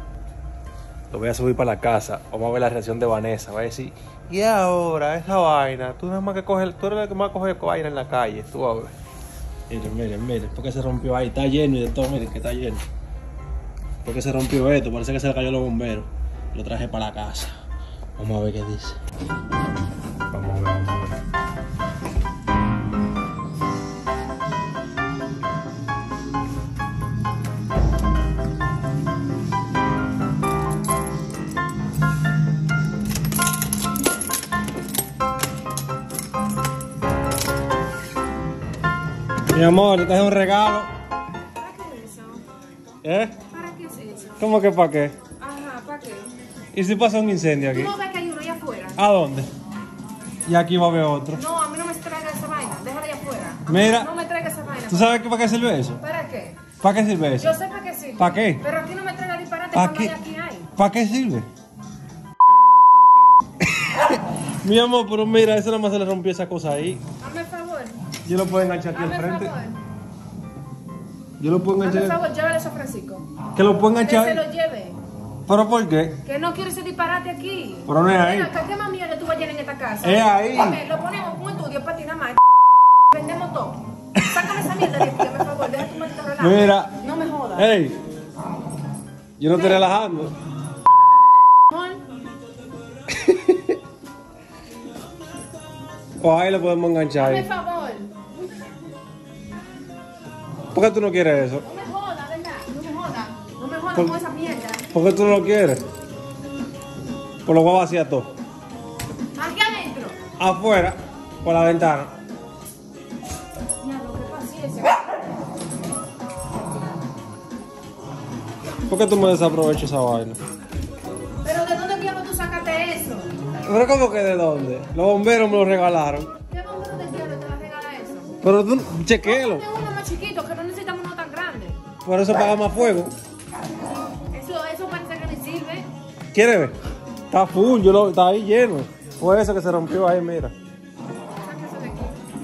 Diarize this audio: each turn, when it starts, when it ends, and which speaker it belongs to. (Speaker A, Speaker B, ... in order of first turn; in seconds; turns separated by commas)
Speaker A: 1.1-8.9, Speaker A: 9.7-12.8, Speaker A: 14.0-17.5, Speaker A: 18.1-19.0, Speaker A: 20.3-21.1, Speaker A: 39.5-40.9, Speaker B: 41.5-42.4, Speaker A: 43.0-43.4, Speaker B: 43.4-44.4, Speaker A: 44.4-45.2, Speaker B: 45.2-46.3, Speaker A: 46.7-47.9, Speaker B: 47.7-49.0, Speaker A: 49.0-49.5, Speaker A: 50.5-51.4, Speaker B: 51.3-55.2, Speaker A: 53.7-54.1, Speaker A: 54.9-56.0, Speaker B: 56.0-56.8, Speaker A: 56.8-57.5, Speaker B: 57.4-60.8, Speaker A: 58.2-58.6, Speaker A: 59.7-60.1, Speaker A: 60.8-61.5, Speaker A: 63.8-67.0, Speaker B: 67.2-68.1, Speaker A: 68.1-69.5, Speaker B: 68.9-69.8, Speaker A: 71.4-72.2, Speaker B: 71.8-73.4, Speaker A: 73.5-74.4, Speaker B: 74.0-75.0, Speaker A: 75.5-76.2, Speaker B: 76.2-82.4, Speaker A: 77.9-78.5, Speaker A: 80.0-80.8, Speaker B: 83.1-87.7, Speaker A: 84.3-85.2, Speaker A: 86.4-86.9, Speaker A: 87.5-88.0, Speaker A: 89.4-90.3, Speaker B: 89.5-89.9, Speaker B: 91.7-92.0, Speaker A: 93.1-93.7, Speaker A: 96.2-97.5, Speaker B: 97.1-98.4, Speaker A: 100.7-101.6, Speaker B: 101.6-104.9, Speaker A: 104.9-105.8, Speaker A: 107.4-108.3, Speaker B: 109.3-110.3, Speaker A: 110.3-112.1, Speaker B: 113.8-115.1, Speaker A: 118.9-120.4, Speaker B: 121.4-123.3, Speaker A: 123.6-126.3, Speaker B: 126.4-128.4, Speaker A: 128.4-129.7, Speaker B: 129.2-131.9, Speaker A: 132.0-133.1, Speaker B: 134.3-135.9, Speaker A: 136.3-136.8, Speaker A: 137.3-140.5, Speaker B: 141.4-142.2